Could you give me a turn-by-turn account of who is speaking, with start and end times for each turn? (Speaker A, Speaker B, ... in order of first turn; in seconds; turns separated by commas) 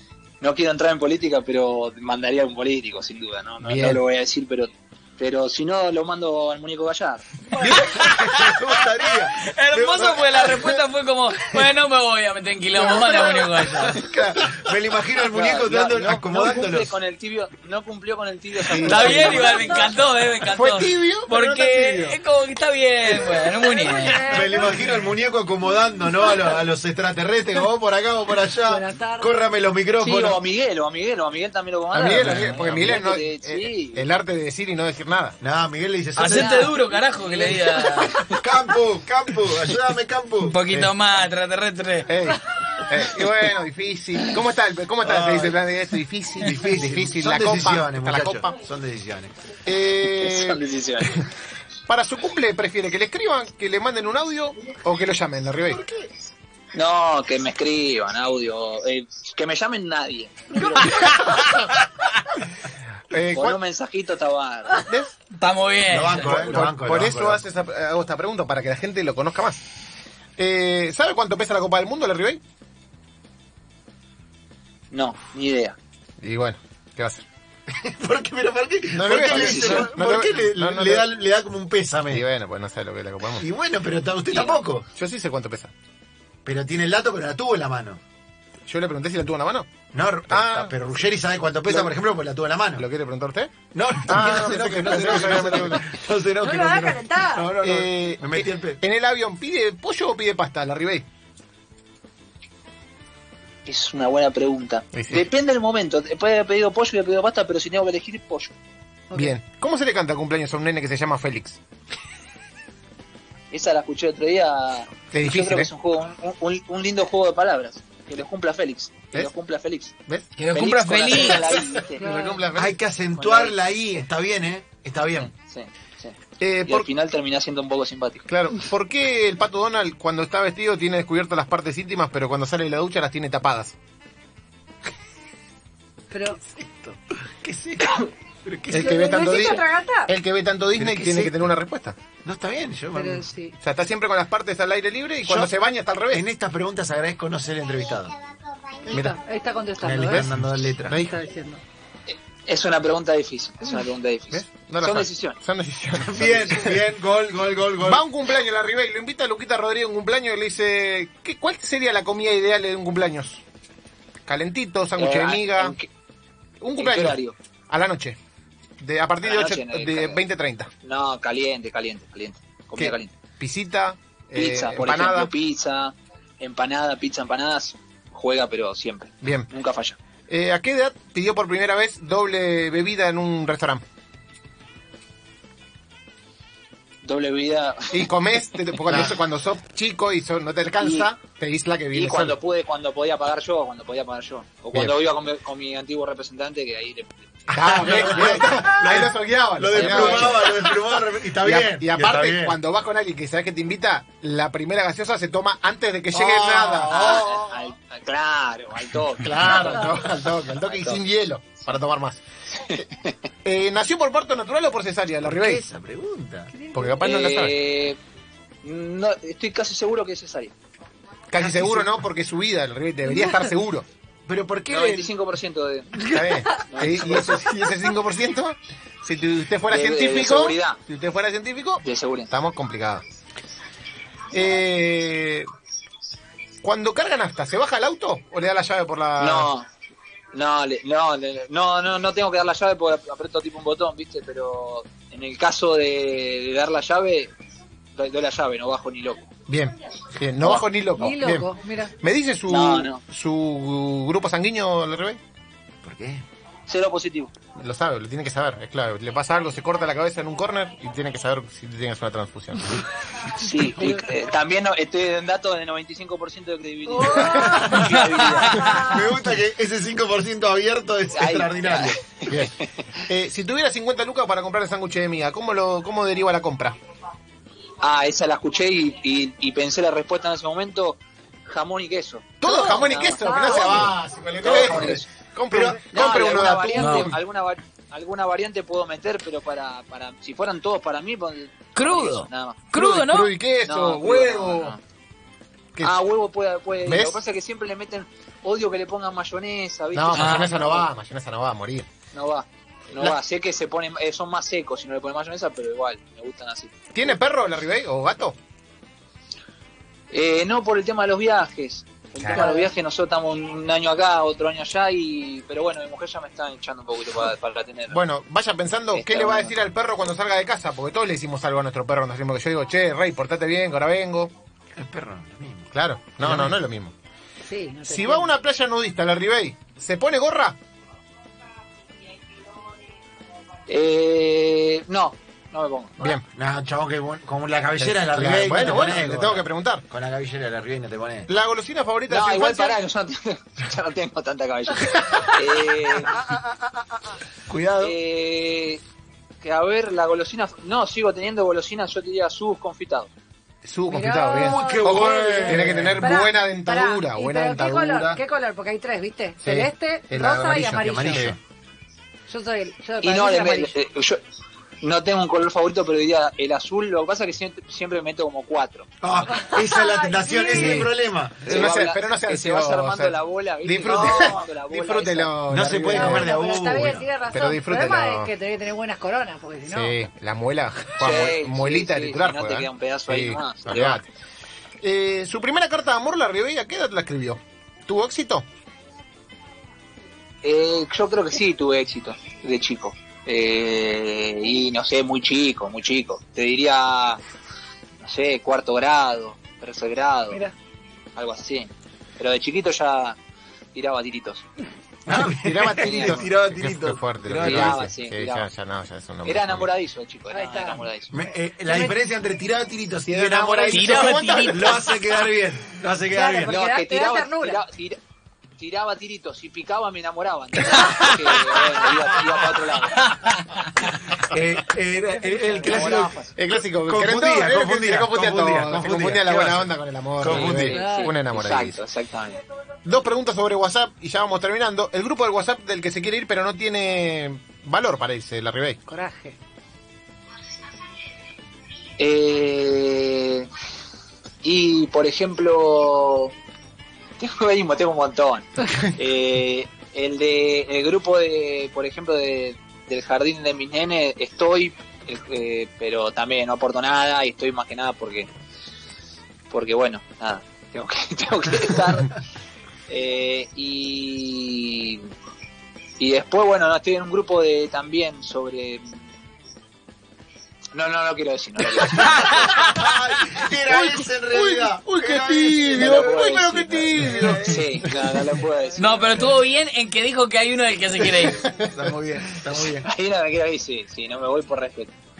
Speaker A: 0.4-7.4, Speaker B: 3.6-4.0, Speaker C: 7.6-10.5, Speaker D: 7.6-8.6, Speaker D: 9.3-14.0, Speaker B: 12.7-14.5, Speaker C: 14.4-16.9, Speaker A: 15.2-19.9, Speaker B: 18.6-19.3, Speaker D: 18.8-24.3, Speaker E: 19.3-19.9, Speaker B: 20.5-22.2, Speaker E: 23.3-24.8, Speaker C: 24.3-30.4, Speaker E: 28.6-29.3, Speaker A: 30.0-34.0, Speaker B: 31.9-35.4, Speaker D: 32.1-32.9, Speaker C: 35.4-36.7, Speaker D: 36.2-38.1, Speaker A: 36.2-38.4, Speaker C: 38.3-40.9, Speaker D: 40.4-42.1, Speaker B: 42.1-48.6, Speaker C: 45.0-45.6, Speaker C: 46.4-49.3, Speaker B: 49.6-50.6, Speaker A: 50.1-51.3, Speaker B: 51.9-55.8, Speaker A: 56.7-61.5, Speaker B: 63.1-63.6, Speaker A: 63.3-64.8, Speaker B: 64.8-65.1, Speaker D: 65.3-66.4, Speaker C: 65.9-67.4, Speaker B: 66.2-69.6, Speaker B: 70.4-72.4, Speaker A: 74.9-75.8, Speaker B: 76.2-77.2, Speaker C: 77.7-82.2, Speaker B: 78.9-81.1, Speaker A: 79.2-79.9, Speaker B: 82.1-83.5, Speaker C: 83.4-84.8, Speaker B: 84.9-85.7, Speaker C: 86.4-88.0, Speaker B: 88.7-89.7, Speaker C: 89.9-92.8, Speaker B: 90.3-90.8, Speaker B: 91.7-92.0, Speaker B: 92.8-93.5, Speaker C: 93.7-98.8, Speaker B: 94.0-95.8, Speaker E: 96.4-97.5, Speaker B: 97.6-101.0, Speaker A: 103.7-108.5, Speaker B: 104.9-105.3, Speaker B: 109.1-111.6, Speaker A: 113.5-119.9, Speaker B: 115.1-115.7, Speaker D: 120.3-121.5, Speaker A: 120.5-122.0, Speaker B: 121.6-122.8, Speaker E: 122.0-122.4, Speaker C: 122.5-125.3, Speaker A: 123.1-123.6, Speaker A: 125.1-128.3, Speaker B: 126.4-126.9, Speaker B: 128.3-133.7, Speaker E: 136.1-136.4, Speaker C: 136.4-139.6, Speaker B: 138.7-142.0, Speaker E: 138.7-140.1, Speaker C: 140.8-141.4, Speaker C: 142.2-143.3, Speaker E: 142.9-143.5, Speaker B: 143.6-146.3, Speaker C: 145.2-145.5, Speaker C: 146.1-148.1, Speaker E: 148.8-150.3, Speaker C: 148.9-149.2, Speaker C: 149.8-151.0, Speaker B: 150.1-151.2, Speaker E: 150.9-151.6, Speaker A: 152.1-155.4, Speaker B: 154.3-156.8, Speaker C: 156.1-158.0, Speaker B: 157.8-163.4, Speaker B: 164.2-165.8, Speaker A: 165.0-165.9, Speaker B: 166.6-168.2, Speaker A: 166.8-167.3, Speaker B: 168.8-170.7, Speaker A: 169.2-170.2, Speaker A: 170.8-173.1, Speaker B: 172.8-175.3, Speaker A: 174.3-180.0, Speaker B: 179.2-179.5, Speaker B: 180.3-183.8, Speaker A: 187.0-188.1, Speaker B: 187.9-192.3, Speaker A: 188.8-189.1, Speaker A: 190.8-191.1, Speaker A: 191.9-197.3, Speaker C: 197.5-202.6, Speaker B: 197.5-200.8, Speaker A: 199.7-200.4, Speaker B: 201.4-207.2, Speaker C: 206.1-207.5, Speaker A: 206.9-210.1, Speaker B: 209.2-212.2, Speaker A: 212.7-213.1, Speaker B: 213.4-215.6, Speaker C: 215.2-216.5, Speaker E: 216.5-217.1, Speaker B: 216.7-217.5, Speaker A: 217.0-218.0, Speaker A: 218.6-220.5, Speaker B: 221.3-223.8, Speaker C: 221.3-221.9, Speaker C: 224.3-225.1, Speaker A: 224.7-226.1, Speaker B: 226.0-233.0, Speaker A: 226.7-227.4, Speaker A: 229.7-230.8, Speaker A: 231.8-232.3, Speaker B: 234.3-235.5, Speaker B: 236.6-239.5, Speaker A: 239.2-239.7, Speaker A: 240.3-247.3, Speaker A: 247.9-249.2, Speaker B: 249.5-255.2, Speaker E: 250.5-251.9, Speaker A: 252.5-253.0, Speaker C: 255.8-256.2, Speaker A: 256.7-257.3, Speaker B: 257.6-262.8, Speaker A: 263.3-268.7, Speaker E: 266.9-267.8, Speaker B: 267.2-267.5, Speaker C: 267.3-268.0, Speaker C: 268.6-272.0, Speaker E: 268.6-269.1, Speaker A: 271.1-273.0, Speaker B: 272.3-276.8, Speaker A: 277.8-285.1, Speaker B: 282.4-287.1, Speaker E: 283.2-283.9, Speaker C: 285.5-285.8, Speaker A: 285.9-292.6, Speaker D: 286.7-287.1, Speaker D: 291.8-293.3, Speaker B: 292.7-294.8, Speaker A: 293.6-294.8, Speaker B: 295.7-296.0, Speaker A: 295.8-300.9, Speaker B: 296.8-297.2, Speaker B: 299.9-301.9, Speaker D: 300.1-300.5, Speaker A: 302.1-307.1, Speaker B: 306.9-308.4, Speaker A: 310.1-318.0, Speaker E: 312.3-312.6, Speaker B: 317.9-324.3, Speaker A: 318.9-319.6, Speaker C: 324.8-326.6, Speaker B: 325.7-326.9, Speaker E: 327.5-328.3, Speaker B: 327.8-330.6, Speaker A: 333.7-335.9, Speaker B: 336.0-336.2, Speaker C: 336.3-341.3, Speaker B: 337.8-339.8, Speaker B: 341.3-342.8, Speaker A: 342.1-346.2, Speaker C: 346.1-346.9, Speaker B: 347.5-347.9, Speaker A: 347.8-348.8, Speaker A: 349.4-353.1, Speaker B: 353.6-358.2, Speaker E: 353.9-361.3, Speaker C: 354.3-356.2, Speaker B: 359.4-361.3, Speaker C: 360.8-361.4, Speaker E: 362.3-363.7, Speaker A: 363.0-364.2, Speaker A: 364.8-369.1, Speaker C: 369.0-371.8, Speaker E: 369.5-370.9, Speaker B: 370.5-370.9, Speaker B: 371.4-376.4, Speaker A: 371.4-375.3, Speaker C: 375.5-377.1, Speaker E: 375.9-380.0, Speaker B: 377.3-378.3, Speaker B: 379.6-384.1, Speaker A: 381.0-384.0, Speaker B: 384.8-388.4, Speaker A: 390.4-397.2, Speaker A: 398.0-400.4, Speaker A: 401.1-403.2, Speaker A: 403.7-404.4, Speaker C: 405.1-407.8, Speaker B: 405.4-409.7, Speaker A: 405.8-406.2, Speaker A: 407.4-408.5, Speaker A: 409.2-411.1, Speaker E: 410.3-410.9, Speaker C: 411.1-416.5, Speaker E: 411.7-411.9, Speaker B: 413.0-414.8, Speaker D: 413.7-414.8, Speaker E: 416.1-417.6, Speaker A: 416.5-418.0, Speaker A: 418.6-423.1, Speaker D: 420.7-421.4, Speaker D: 423.0-423.6, Speaker C: 424.1-426.1, Speaker E: 425.3-425.9, Speaker A: 425.6-426.3, Speaker B: 426.4-431.8, Speaker C: 426.8-430.8, Speaker A: 430.2-432.4, Speaker E: 430.7-431.1, Speaker B: 432.8-438.8, Speaker E: 438.9-439.4, Speaker A: 442.0-443.5, Speaker A: 444.4-446.3, Speaker A: 447.2-458.3, Speaker A: 459.5-462.1, Speaker A: 462.9-465.1, Speaker A: 466.0-469.1, Speaker A: 470.7-472.4, Speaker D: 472.0-472.9, Speaker C: 472.4-477.9, Speaker B: 473.7-477.7, Speaker A: 475.8-479.3, Speaker D: 478.8-481.4, Speaker B: 481.4-481.9, Speaker C: 481.6-482.9, Speaker A: 482.5-484.9